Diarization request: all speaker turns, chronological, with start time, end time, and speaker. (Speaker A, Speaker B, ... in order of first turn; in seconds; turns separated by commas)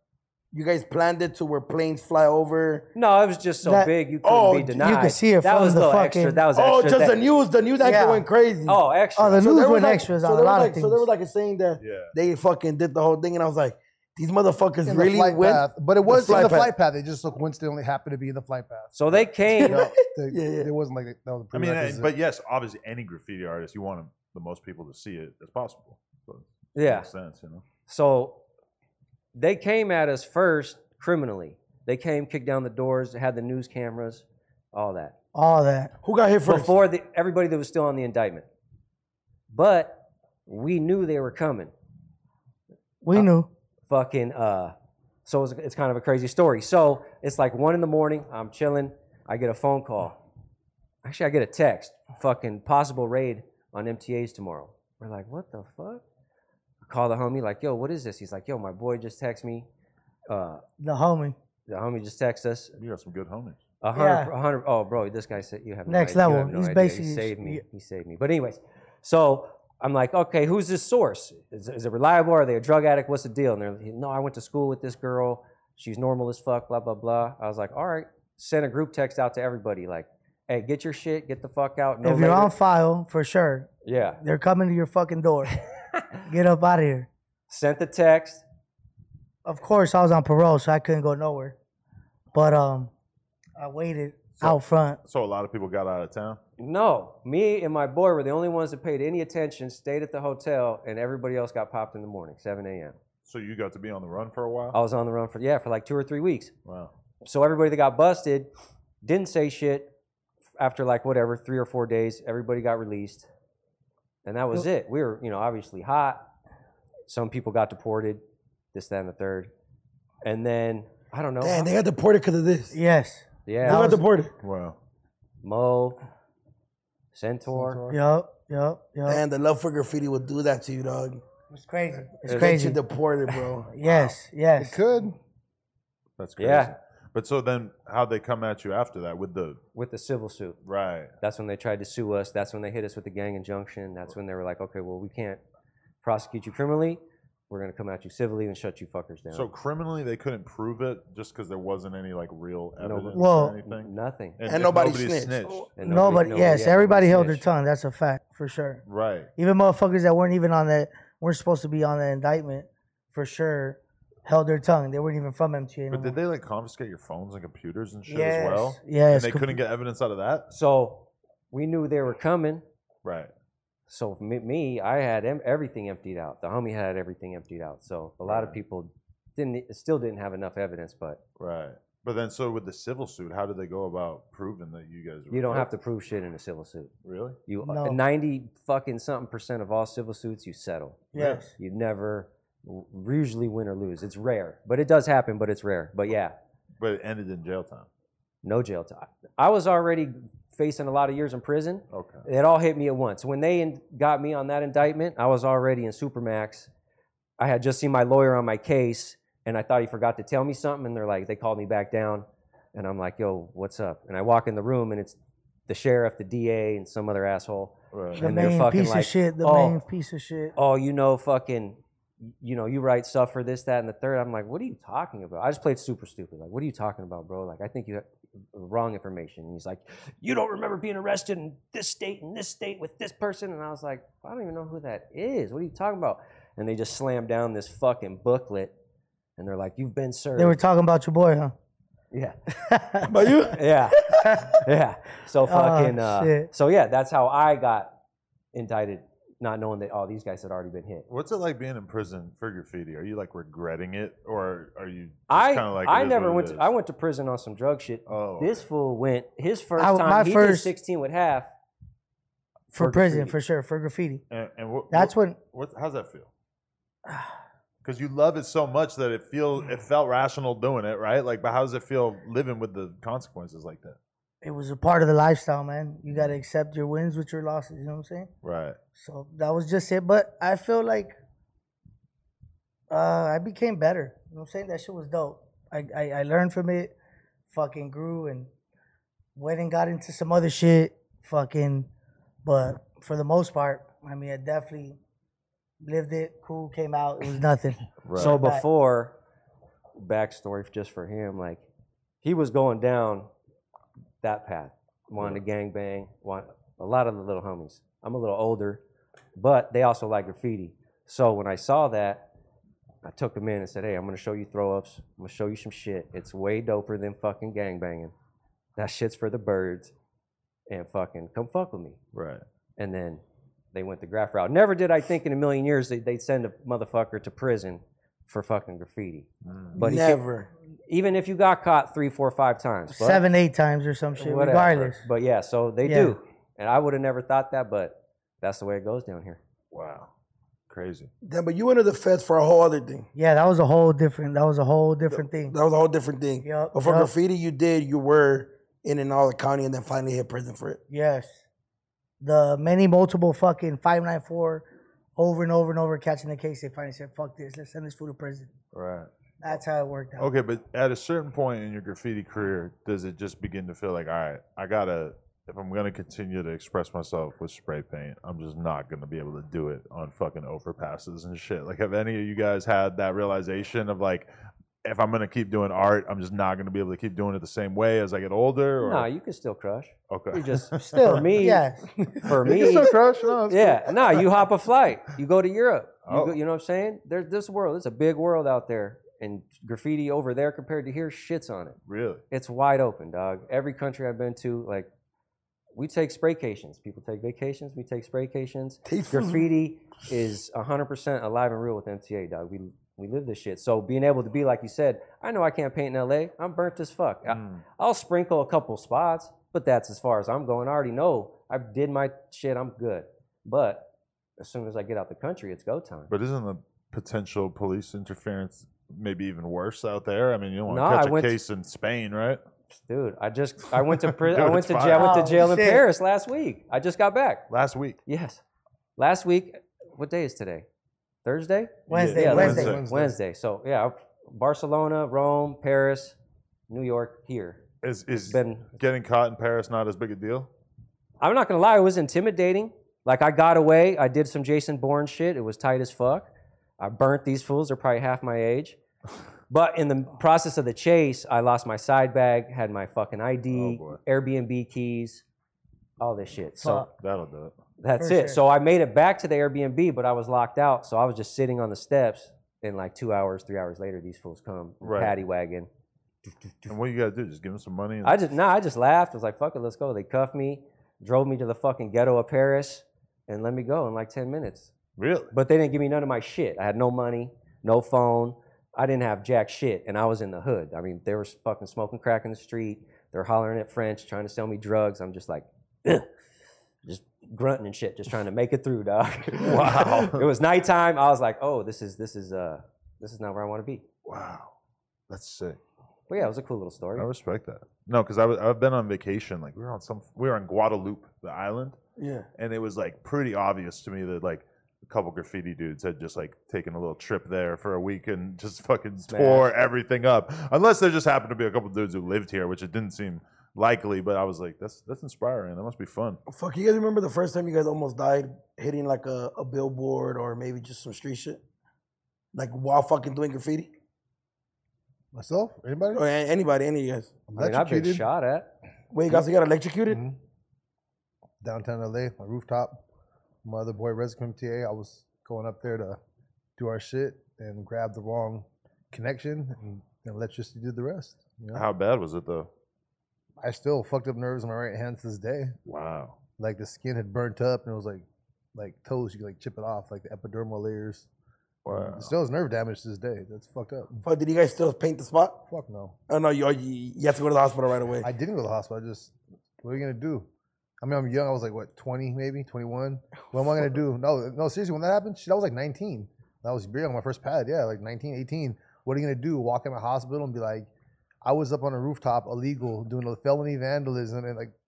Speaker A: 0.5-2.9, Speaker B: 2.9-7.2, Speaker C: 3.6-3.9, Speaker A: 4.2-4.8, Speaker C: 4.8-6.4, Speaker A: 6.5-8.8, Speaker C: 7.8-8.2, Speaker B: 8.7-9.4, Speaker C: 9.2-11.1, Speaker A: 9.4-16.7, Speaker D: 11.8-12.1, Speaker E: 14.8-22.1, Speaker B: 18.9-19.8, Speaker A: 19.6-20.7, Speaker D: 21.5-27.6, Speaker B: 26.7-27.1, Speaker B: 27.9-28.4, Speaker B: 29.3-35.1, Speaker C: 35.3-35.9, Speaker A: 36.0-36.8, Speaker B: 36.4-38.5, Speaker B: 39.5-41.7, Speaker C: 43.0-43.5, Speaker B: 43.9-44.7, Speaker B: 45.2-50.2, Speaker B: 51.0-56.0, Speaker B: 56.8-59.7, Speaker B: 60.3-60.6, Speaker C: 60.8-61.3, Speaker B: 61.7-62.8, Speaker D: 62.8-63.6, Speaker B: 63.8-82.5, Speaker C: 63.9-64.3, Speaker C: 65.9-67.6, Speaker C: 82.0-83.7, Speaker B: 83.8-84.2, Speaker C: 84.2-85.6, Speaker C: 86.2-87.1, Speaker B: 87.5-88.4, Speaker C: 89.4-91.5, Speaker C: 92.3-92.9, Speaker C: 93.6-95.0, Speaker D: 94.4-96.4, Speaker B: 96.6-103.0, Speaker D: 103.2-104.8, Speaker B: 104.7-106.5, Speaker D: 106.7-106.9, Speaker B: 107.2-108.5, Speaker B: 109.0-109.9, Speaker B: 110.6-113.3, Speaker B: 114.2-116.2, Speaker B: 117.1-118.2, Speaker B: 118.7-119.5, Speaker B: 120.2-121.7, Speaker A: 121.4-122.8, Speaker C: 122.7-124.0, Speaker B: 123.5-123.9, Speaker A: 123.6-124.3, Speaker D: 124.4-124.8, Speaker B: 125.4-126.0, Speaker B: 127.1-127.8, Speaker E: 127.5-128.0, Speaker C: 127.9-129.2, Speaker A: 129.1-131.2, Speaker C: 131.5-132.8, Speaker B: 132.2-132.5, Speaker A: 132.3-133.7, Speaker C: 133.7-134.8, Speaker E: 134.6-135.2, Speaker D: 136.2-139.6, Speaker B: 136.4-136.7, Speaker B: 139.7-140.6, Speaker D: 140.7-141.1, Speaker B: 141.2-145.4, Speaker B: 146.0-149.5, Speaker D: 149.3-156.3, Speaker B: 152.8-154.4, Speaker C: 153.2-153.6, Speaker A: 154.4-155.7, Speaker B: 155.8-157.4, Speaker C: 155.8-158.8, Speaker D: 158.8-159.3, Speaker C: 159.3-166.2, Speaker D: 165.9-170.4, Speaker C: 168.1-169.6, Speaker B: 170.5-172.6, Speaker D: 173.0-173.3, Speaker B: 173.9-181.2, Speaker D: 178.2-178.6, Speaker D: 181.4-185.7, Speaker B: 185.3-186.9, Speaker D: 187.0-187.4, Speaker B: 187.5-196.3, Speaker C: 187.6-188.0, Speaker C: 191.1-191.5, Speaker D: 191.1-191.4, Speaker D: 196.8-197.9, Speaker B: 198.4-206.7, Speaker D: 201.9-202.3, Speaker B: 207.4-215.2, Speaker B: 215.7-219.8, Speaker D: 217.9-218.2, Speaker C: 218.2-220.5, Speaker B: 220.6-238.7, Speaker B: 239.4-240.6, Speaker C: 240.4-241.5, Speaker C: 242.6-243.3, Speaker A: 243.0-243.6, Speaker B: 243.5-247.9, Speaker C: 244.0-244.6, Speaker C: 245.5-246.5, Speaker B: 248.5-251.1, Speaker D: 251.1-256.7, Speaker B: 255.3-261.5, Speaker D: 258.1-258.6, Speaker C: 259.8-260.7, Speaker C: 262.7-264.2, Speaker B: 262.8-263.3, Speaker D: 264.3-266.3, Speaker C: 264.9-265.4, Speaker D: 267.8-274.0, Speaker C: 274.4-278.3, Speaker D: 278.4-278.8, Speaker C: 278.9-281.1, Speaker C: 282.9-286.9, Speaker C: 287.5-288.5, Speaker C: 289.4-291.9, Speaker C: 292.4-295.0, Speaker C: 295.8-298.6, Speaker D: 298.0-298.4, Speaker B: 298.1-299.1, Speaker B: 299.9-301.6, Speaker B: 302.2-303.3, Speaker B: 304.2-308.8, Speaker B: 309.4-312.3, Speaker B: 313.0-318.1, Speaker B: 318.8-319.9, Speaker B: 320.7-322.0, Speaker D: 322.1-322.4, Speaker B: 322.8-323.2, Speaker B: 323.7-330.2, Speaker D: 329.4-329.8, Speaker A: 329.7-330.5, Speaker B: 330.9-333.2, Speaker C: 332.9-335.0, Speaker B: 334.1-339.4, Speaker C: 335.9-336.1, Speaker D: 339.7-340.1, Speaker D: 340.7-341.1, Speaker A: 341.2-343.1, Speaker C: 343.1-345.6, Speaker A: 345.5-350.8, Speaker C: 346.4-347.1, Speaker C: 350.9-351.4, Speaker C: 352.2-354.6, Speaker C: 355.2-358.5, Speaker D: 358.7-359.1, Speaker C: 359.4-360.3, Speaker D: 360.2-374.3, Speaker D: 374.8-379.1, Speaker B: 378.8-391.8, Speaker D: 380.1-381.1, Speaker C: 380.8-382.1, Speaker D: 382.2-384.2, Speaker E: 382.6-382.9, Speaker D: 386.1-386.4, Speaker D: 391.9-392.2, Speaker B: 392.3-394.9, Speaker B: 395.7-416.1, Speaker A: 398.9-399.5, Speaker D: 407.3-407.6, Speaker D: 416.1-422.4, Speaker B: 420.7-421.4, Speaker B: 422.7-427.5, Speaker D: 424.2-425.2, Speaker C: 424.9-425.8, Speaker D: 427.5-428.0, Speaker B: 428.1-428.4, Speaker B: 429.0-430.6, Speaker B: 431.2-436.1, Speaker E: 431.9-433.1, Speaker C: 432.0-432.8, Speaker D: 432.3-432.8, Speaker B: 436.7-437.6, Speaker D: 437.8-440.5, Speaker B: 438.3-438.7, Speaker B: 441.2-446.3, Speaker B: 446.8-448.8, Speaker B: 449.5-455.2, Speaker D: 453.5-454.0, Speaker B: 456.0-456.9, Speaker C: 456.6-456.9, Speaker D: 457.0-457.5, Speaker B: 457.8-465.7, Speaker C: 458.0-458.4, Speaker D: 464.8-465.1, Speaker D: 466.7-468.2, Speaker B: 468.0-474.7, Speaker D: 475.0-475.3, Speaker B: 475.3-486.1, Speaker B: 486.8-493.8, Speaker D: 489.4-490.2, Speaker D: 494.1-494.5, Speaker D: 495.1-495.6, Speaker B: 496.1-497.1, Speaker D: 496.9-501.8, Speaker A: 502.0-502.3, Speaker D: 502.4-516.2, Speaker B: 509.1-509.5, Speaker A: 516.3-521.4, Speaker A: 522.3-523.7, Speaker E: 525.1-526.0, Speaker A: 525.9-527.2, Speaker E: 527.3-528.0, Speaker B: 527.4-528.5, Speaker A: 528.9-530.0, Speaker E: 529.9-530.2, Speaker E: 531.4-532.8, Speaker E: 533.4-536.0, Speaker E: 536.6-541.6, Speaker D: 541.5-542.5, Speaker E: 543.4-545.5, Speaker D: 545.6-546.1, Speaker E: 546.4-551.1, Speaker D: 551.6-552.1, Speaker E: 551.7-554.0, Speaker A: 554.0-555.4, Speaker E: 555.5-555.9, Speaker A: 556.1-558.1, Speaker E: 558.0-560.3, Speaker E: 560.8-570.7, Speaker E: 571.2-574.5